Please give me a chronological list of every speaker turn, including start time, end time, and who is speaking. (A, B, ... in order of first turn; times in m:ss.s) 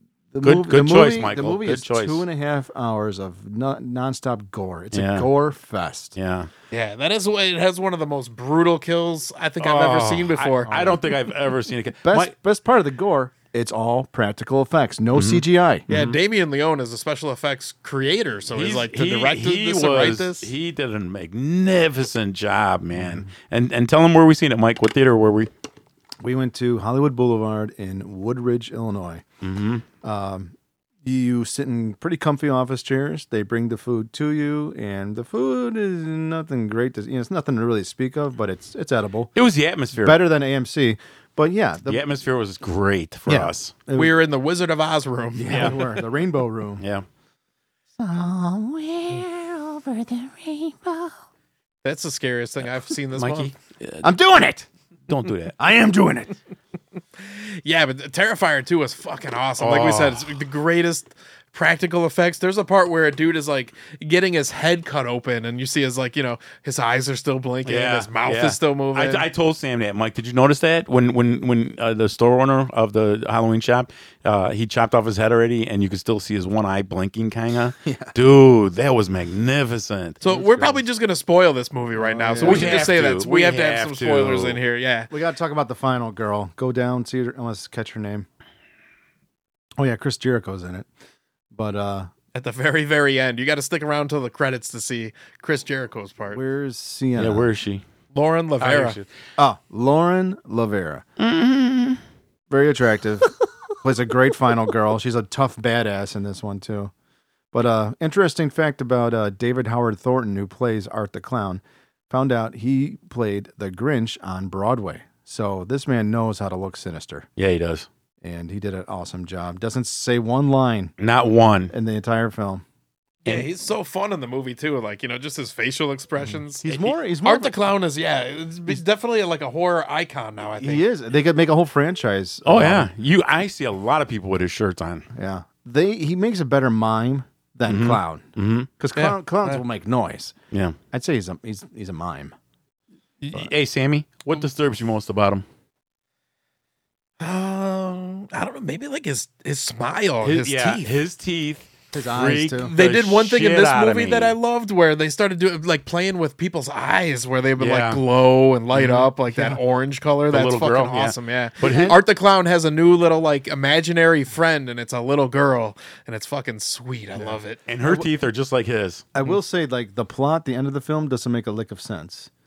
0:00.3-0:06.2 A
0:00.4-0:02.2 B
0:04.9-0:05.3 B
0:06.2-0:06.5 B
0:06.7-0:11.0 C
0:09.6-0:12.3 B
0:12.0-0:15.9 A
0:15.1-0:16.2 B
0:15.9-0:20.5 C
0:18.5-0:25.5 B
0:22.9-0:23.3 A
0:26.2-0:29.2 A
0:29.4-0:29.8 B
0:30.0-0:39.3 A
0:39.4-0:40.2 B
0:39.9-0:42.0 A
0:41.9-0:43.8 B
0:43.3-0:44.2 A
0:44.0-0:45.8 C
0:45.4-0:46.8 A
0:45.5-0:45.8 B
0:46.8-0:47.0 B
0:48.0-0:51.1 A
0:51.8-0:53.5 C
0:53.1-0:54.1 B
0:54.0-0:54.7 A
0:55.1-0:55.6 B
0:55.6-0:56.4 A
0:57.2-1:09.3 C
0:59.6-1:00.4 B
1:07.7-1:20.2 B
1:17.8-1:18.1 A
1:20.2-1:25.1 C
1:20.2-1:20.8 A
1:22.0-1:22.9 A
1:22.4-1:24.6 B
1:25.1-1:28.3 A
1:29.8-1:30.9 A
1:31.5-1:32.1 A
1:32.3-1:36.4 C
1:36.3-1:37.5 A
1:37.2-1:37.8 B
1:38.1-1:39.0 C
1:38.6-1:39.1 B
1:39.4-1:41.0 A
1:41.2-1:42.0 B
1:42.5-1:46.9 A
1:47.5-1:57.3 A
1:57.4-1:57.9 B
1:58.2-2:00.9 A
2:01.0-2:01.7 B
2:01.7-2:02.6 A
2:03.2-2:10.8 C
2:06.6-2:07.6 A
2:10.6-2:12.9 A
2:12.4-2:15.1 B
2:15.1-2:18.3 A
2:17.7-2:18.7 B
2:18.8-2:20.4 A
2:19.0-2:19.6 C
2:20.5-2:20.8 B
2:20.9-2:22.4 A
2:23.3-2:25.4 B
2:27.2-2:30.9 C
2:30.2-2:34.4 B
2:31.9-2:32.8 A
2:32.6-2:47.6 C
2:37.6-2:38.0 B
2:38.7-2:39.1 B
2:39.3-2:39.6 A
2:40.3-2:42.0 B
2:41.6-2:42.0 A
2:47.2-2:48.1 A
2:47.7-2:49.1 B
2:49.1-2:52.3 A